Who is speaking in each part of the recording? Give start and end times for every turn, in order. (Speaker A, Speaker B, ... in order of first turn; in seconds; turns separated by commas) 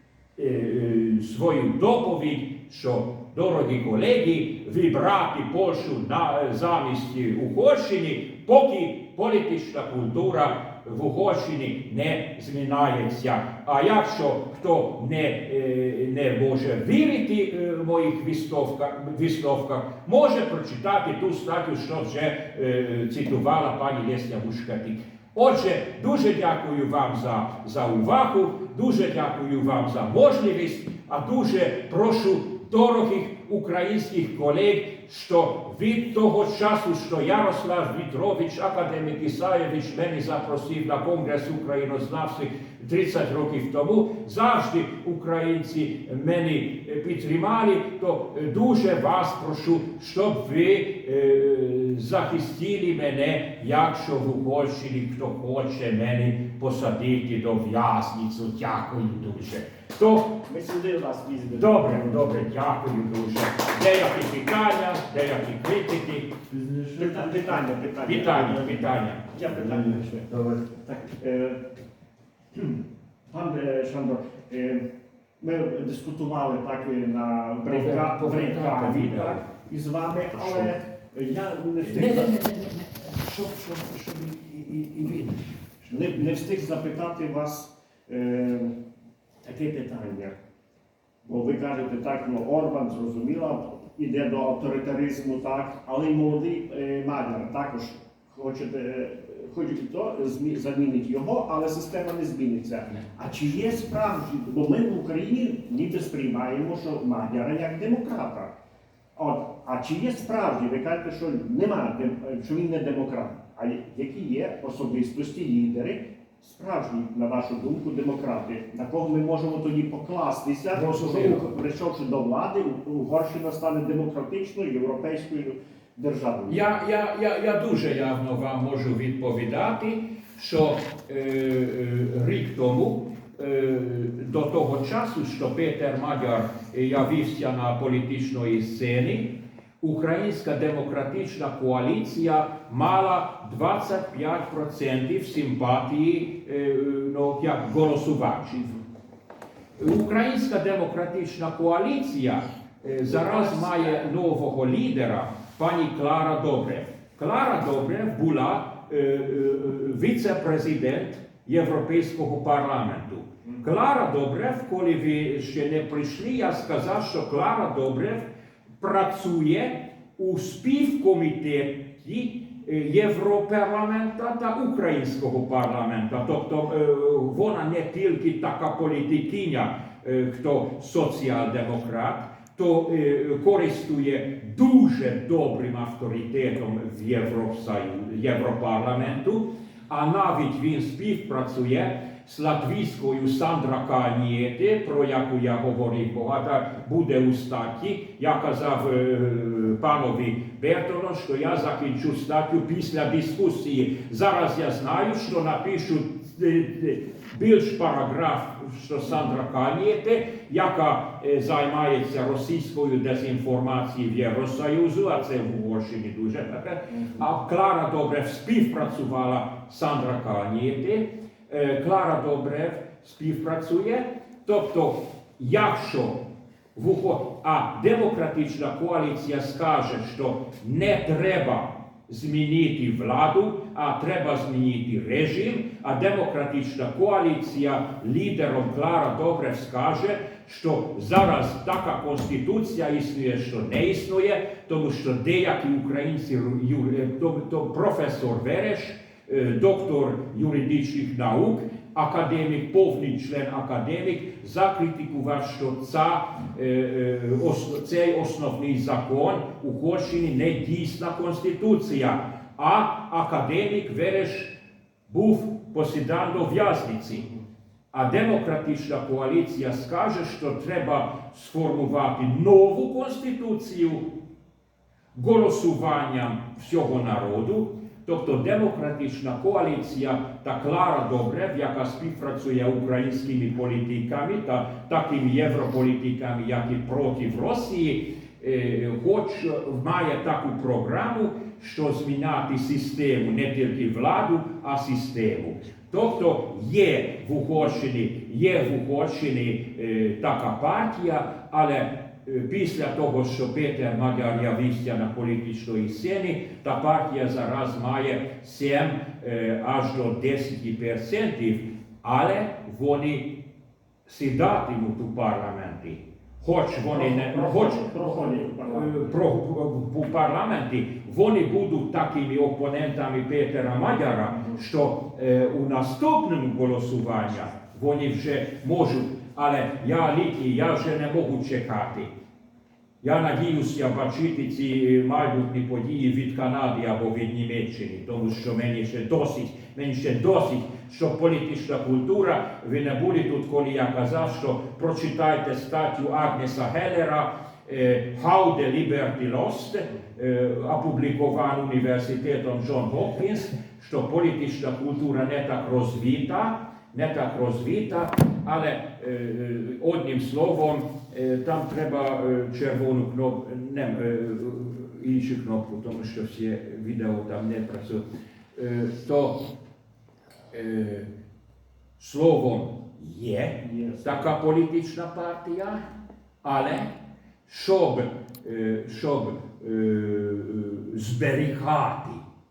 Speaker A: 0.4-60.4, Speaker B: 60.4-62.4, Speaker A: 61.5-66.4, Speaker C: 66.5-67.7, Speaker B: 67.0-70.2, Speaker A: 68.0-69.2, Speaker C: 69.4-70.8, Speaker B: 70.8-71.7, Speaker B: 72.5-74.8, Speaker B: 75.4-82.3, Speaker A: 77.7-79.5, Speaker A: 80.4-80.7, Speaker A: 81.8-85.3, Speaker B: 85.8-88.7, Speaker B: 89.4-90.3, Speaker B: 91.2-108.5, Speaker B: 109.1-126.7, Speaker A: 120.7-121.5, Speaker A: 126.5-148.8, Speaker A: 149.8-168.3, Speaker A: 168.8-226.2, Speaker A: 226.7-264.5, Speaker A: 265.1-267.3, Speaker A: 267.9-274.1, Speaker A: 275.1-313.4, Speaker A: 314.1-332.1, Speaker B: 316.9-319.1, Speaker A: 333.0-368.0, Speaker A: 368.5-369.4, Speaker A: 370.5-371.1, Speaker A: 372.0-375.8, Speaker B: 373.6-374.2, Speaker A: 376.4-376.9, Speaker A: 377.4-382.2